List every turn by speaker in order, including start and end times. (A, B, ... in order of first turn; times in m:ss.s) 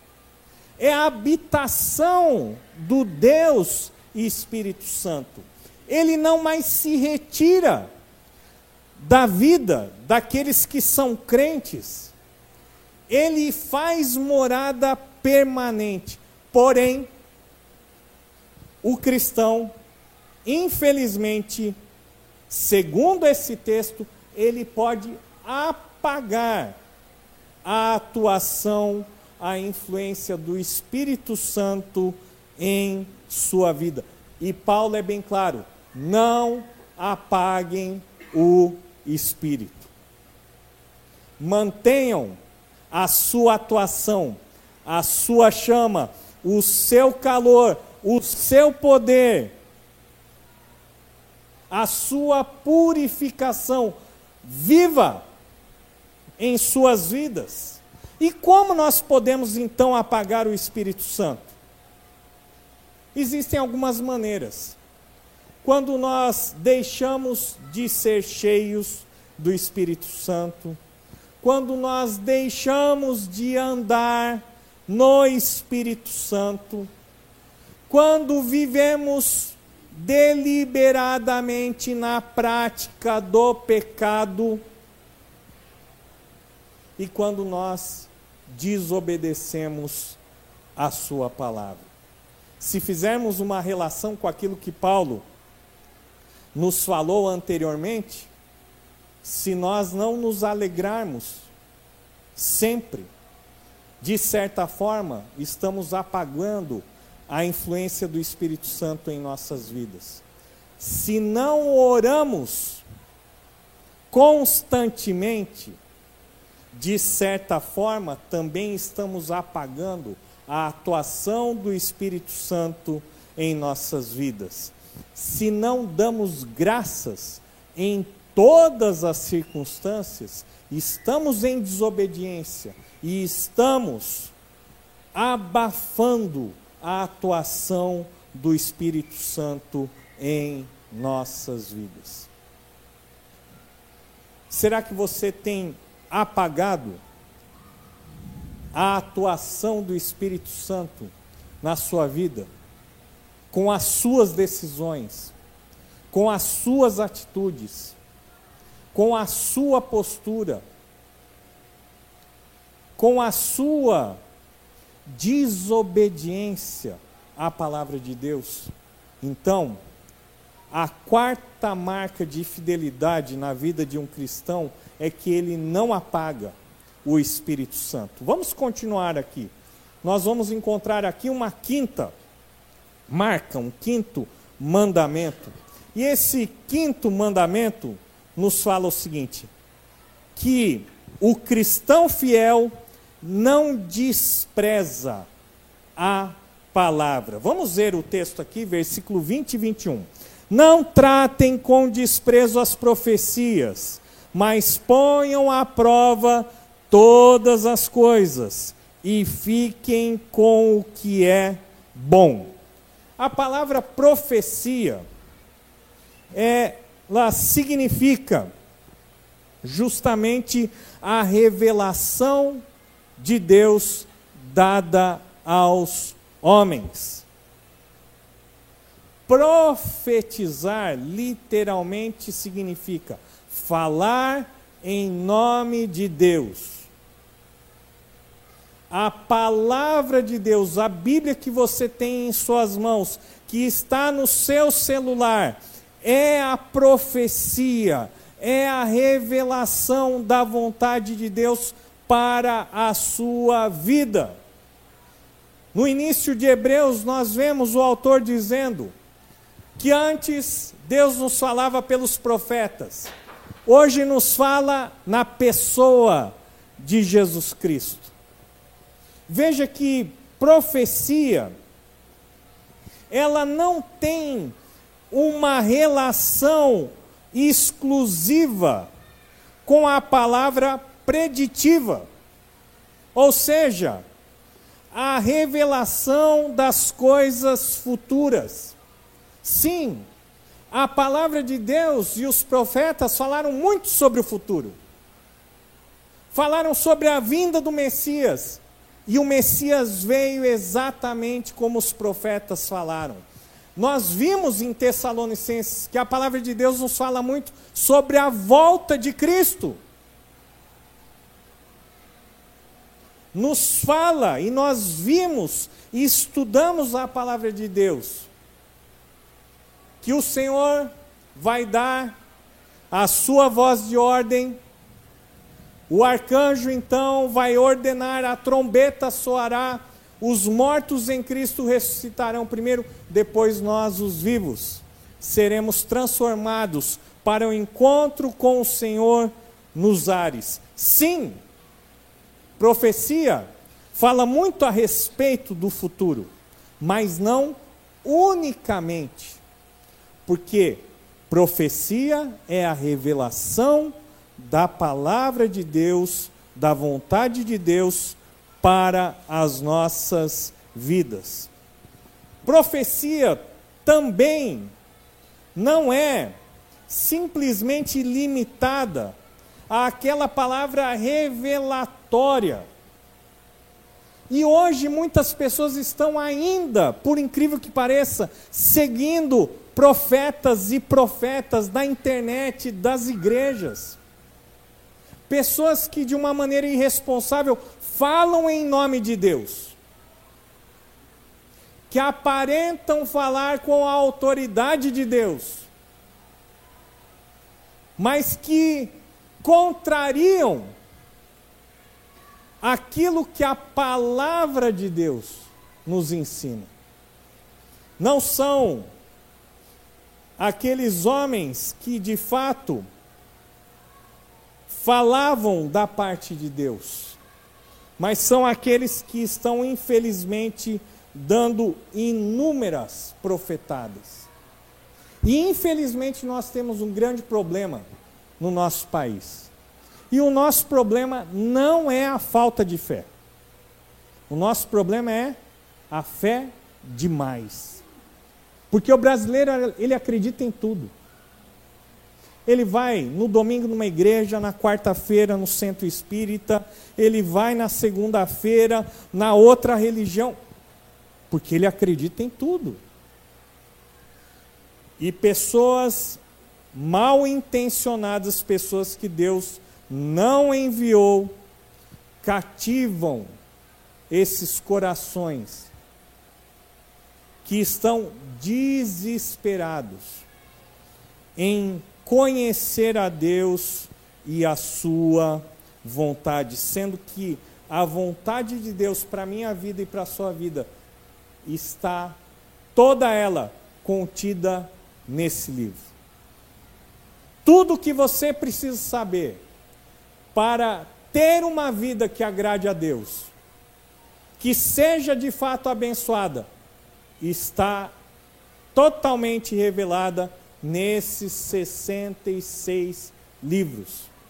0:00.8-0:07.9 A
0:09.0-0:12.1 A
0:13.1-0:17.1 A
0:18.8-0:19.7 A
0:20.4-0:21.7 A
0:22.5-0:26.7 A
0:27.6-0:39.9 A
0:41.4-0:42.4 A
0:42.9-0:49.5 A
0:51.7-0:55.2 A
0:56.4-1:01.5 A
1:03.1-1:04.8 A
1:05.6-1:10.8 A
1:11.4-1:16.9 A
1:17.9-1:24.6 A
1:27.0-1:30.2 A
1:30.8-1:31.9 A
1:32.6-1:35.2 A
1:36.5-1:38.3 A
1:39.2-1:41.5 A
1:42.4-1:43.1 A
1:44.0-1:50.2 A
1:50.8-1:52.8 A
1:54.1-1:55.8 A
1:56.7-2:14.3 A
2:15.1-2:22.3 A
2:24.5-2:27.0 A
2:28.7-2:32.5 A
2:33.5-2:35.3 A
2:36.1-2:38.0 A
2:38.9-2:40.6 A
2:43.0-2:44.2 A
2:45.0-2:49.8 A
2:50.7-2:59.5 A
3:00.0-3:02.1 A
3:03.1-3:09.5 A
3:10.4-3:15.3 A
3:16.0-3:32.5 A
3:33.2-3:35.0 A
3:36.3-3:38.5 A
3:39.6-3:42.6 A
3:43.2-3:47.2 A
3:49.3-3:56.9 A
3:58.9-4:14.4 A
4:15.7-4:18.9 A
4:19.8-4:23.1 A
4:23.6-4:28.1 A
4:29.3-4:31.5 A
4:33.1-4:34.5 A
4:35.1-4:38.9 A
4:39.6-4:42.1 A
4:43.1-4:44.0 A
4:44.9-4:48.8 A
4:49.4-4:50.1 A
4:50.7-4:54.8 A
4:56.3-5:03.2 A
5:03.8-5:09.8 A
5:13.3-5:18.3 A
5:20.0-5:22.1 A
5:22.9-5:24.6 A
5:25.9-5:41.4 A
5:42.6-5:49.4 A
5:50.2-6:01.5 A
6:02.4-6:04.7 A
6:05.5-6:06.3 A
6:06.9-6:09.1 A
6:09.7-6:12.6 A
6:14.3-6:24.0 A
6:25.3-6:29.8 A
6:31.9-6:35.7 A
6:38.0-6:40.7 A
6:42.6-6:46.7 A
6:48.0-6:48.9 A
6:50.4-6:52.8 A
6:54.7-6:57.2 A
6:58.0-7:04.3 A
7:05.2-7:07.8 A
7:08.4-7:09.5 A
7:10.1-7:13.1 A
7:14.3-7:15.4 A
7:15.9-7:17.8 A
7:18.7-7:20.9 A
7:22.4-7:30.4 A
7:31.3-7:32.8 A
7:35.0-7:36.2 A
7:36.7-7:41.3 A
7:42.2-7:43.3 A
7:44.1-7:45.7 A
7:47.4-7:50.2 A
7:51.4-8:00.7 A
8:01.4-8:02.2 A
8:02.7-8:05.9 A
8:07.4-8:09.4 A
8:10.3-8:13.3 A
8:14.4-8:16.5 A
8:17.2-8:17.9 A
8:18.7-8:24.1 A